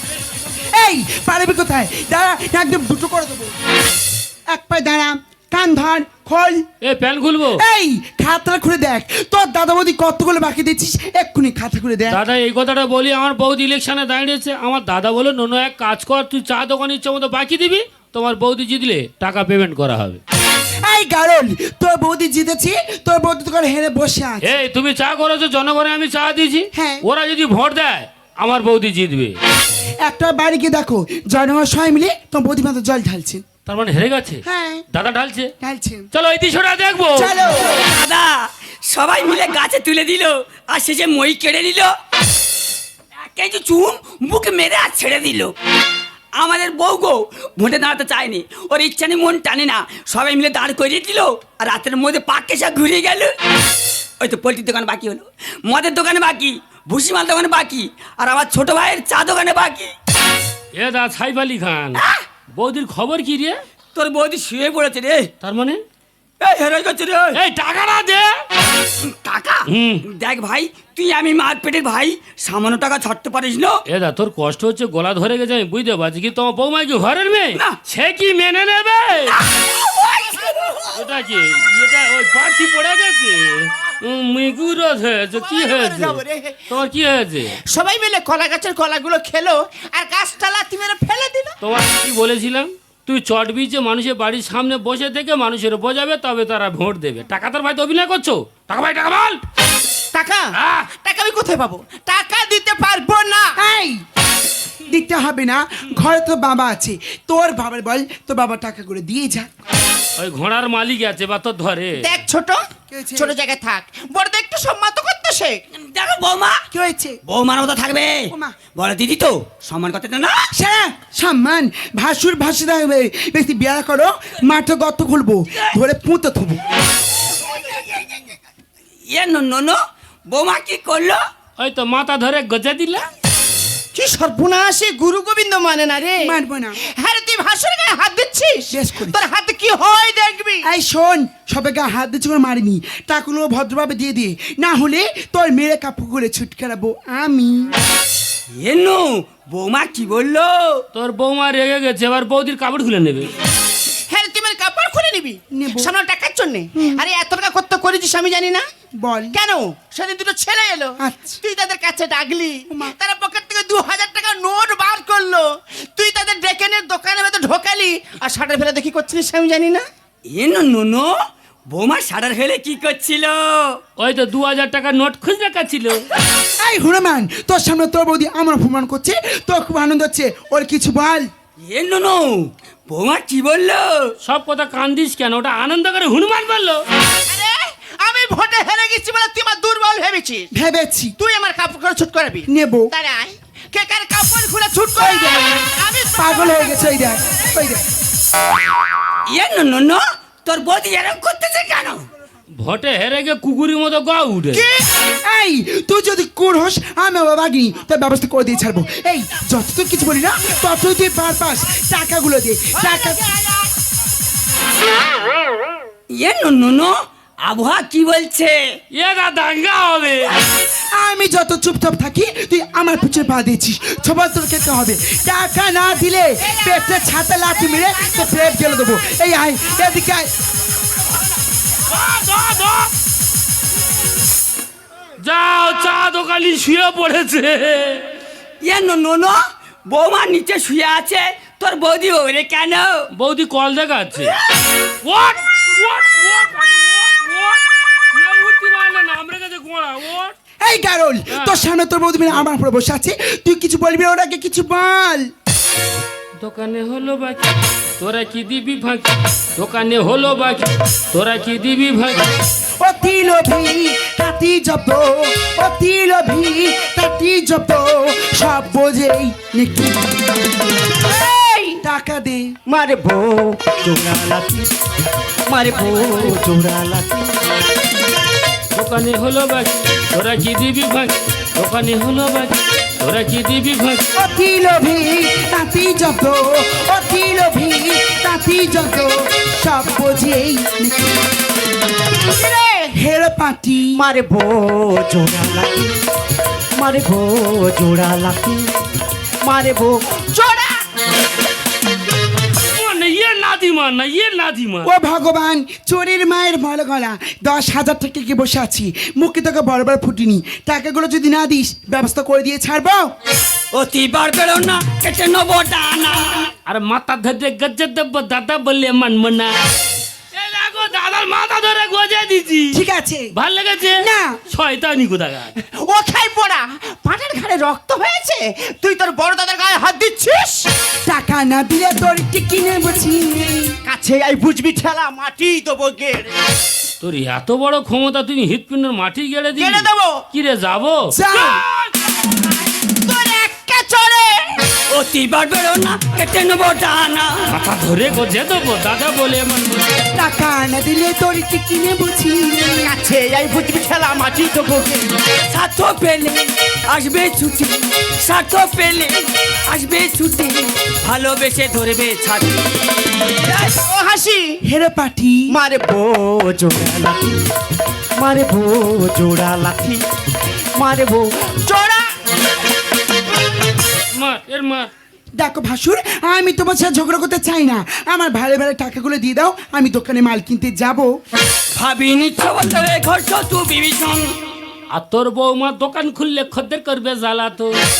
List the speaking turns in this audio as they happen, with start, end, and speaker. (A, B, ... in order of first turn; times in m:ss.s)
0:00.6-0:03.5 A
0:04.5-0:06.6 A
0:06.8-0:07.6 B
0:07.5-0:12.2 A
0:12.1-0:20.2 B
0:20.8-0:24.5 A
0:24.4-0:29.4 B
0:26.7-0:27.1 A
0:30.0-0:33.4 A
0:33.6-0:35.5 B
0:34.4-0:34.8 A
0:35.6-0:36.1 A
0:36.1-0:37.4 B
0:37.1-0:37.9 A
0:37.6-0:41.9 C
0:43.2-0:45.5 C
0:46.3-0:53.4 C
0:54.2-0:59.9 C
1:00.7-1:03.6 B
1:02.0-1:02.2 C
1:03.9-1:05.3 C
1:05.4-1:05.8 B
1:06.4-1:07.4 C
1:07.3-1:08.4 B
1:09.0-1:13.8 C
1:09.7-1:10.1 B
1:13.8-1:19.4 B
1:19.4-1:20.9 C
1:20.9-1:27.6 B
1:25.3-1:26.6 D
1:27.7-1:31.6 D
1:31.6-1:39.4 B
1:40.1-1:43.6 D
1:40.5-1:40.9 B
1:43.6-1:44.0 A
1:44.9-1:49.5 A
1:50.2-1:52.2 B
1:52.0-1:52.6 D
1:52.9-1:53.4 A
1:53.2-1:55.6 D
1:55.8-1:56.6 C
1:56.7-1:57.2 A
1:57.2-2:00.5 C
1:58.3-1:58.6 A
2:00.5-2:06.6 A
2:07.5-2:08.2 C
2:09.1-2:11.2 C
2:11.6-2:13.0 B
2:13.9-2:20.7 D
2:16.2-2:16.8 A
2:18.7-2:19.2 A
2:20.6-2:27.7 A
2:28.6-2:30.8 C
2:30.9-2:33.3 B
2:34.1-2:38.6 D
2:35.5-2:35.9 A
2:36.7-2:37.0 A
2:39.0-2:39.4 A
2:39.3-2:49.8 D
2:41.0-2:41.4 A
2:42.7-2:42.9 A
2:50.3-2:51.1 C
2:51.7-2:53.8 C
2:54.0-2:56.1 B
2:56.6-3:01.3 A
3:01.7-3:04.1 C
3:04.2-3:06.8 B
3:07.3-3:10.5 D
3:10.5-3:11.2 A
3:11.2-3:16.9 D
3:12.5-3:12.9 A
3:15.0-3:15.4 A
3:16.2-3:17.8 A
3:19.3-3:22.0 C
3:22.5-3:24.7 B
3:24.5-3:24.8 D
3:25.2-3:33.2 A
3:32.8-3:33.7 D
3:36.1-3:38.6 C
3:38.9-3:40.4 B
3:40.9-3:50.3 A
3:46.4-3:46.9 D
3:47.5-3:48.5 D
3:51.8-3:52.9 B
3:55.2-3:58.1 B
3:58.6-4:03.0 C
4:03.1-4:10.3 B
4:10.6-4:15.3 A
4:11.3-4:11.7 B
4:16.4-4:22.3 B
4:22.8-4:30.0 A
4:31.0-4:31.8 D
4:31.8-4:32.6 A
4:32.7-4:34.7 D
4:35.5-4:37.3 D
4:38.7-4:44.0 B
4:44.1-4:51.2 A
4:52.2-4:52.9 D
4:52.9-4:54.0 A
4:54.0-4:55.9 D
4:56.8-4:58.7 D
4:59.4-5:00.8 D
5:02.7-5:04.9 B
5:04.8-5:13.1 A
5:13.7-5:16.5 C
5:16.6-5:19.5 B
5:20.3-5:25.5 B
5:22.7-5:23.3 A
5:24.0-5:24.4 A
5:25.7-5:30.7 D
5:31.0-5:33.8 A
5:33.8-5:36.3 D
5:37.0-5:41.2 B
5:39.6-5:40.2 D
5:41.1-5:41.6 A
5:43.0-5:44.6 D
5:44.9-5:47.4 C
5:47.4-5:50.0 B
5:50.1-5:52.9 A
5:52.8-5:55.0 D
5:55.5-6:03.8 C
6:03.8-6:04.6 D
6:04.6-6:05.5 A
6:05.5-6:07.4 D
6:08.2-6:10.0 D
6:10.8-6:12.1 D
6:14.1-6:14.9 B
6:15.3-6:21.2 A
6:21.7-6:24.3 C
6:24.9-6:27.8 B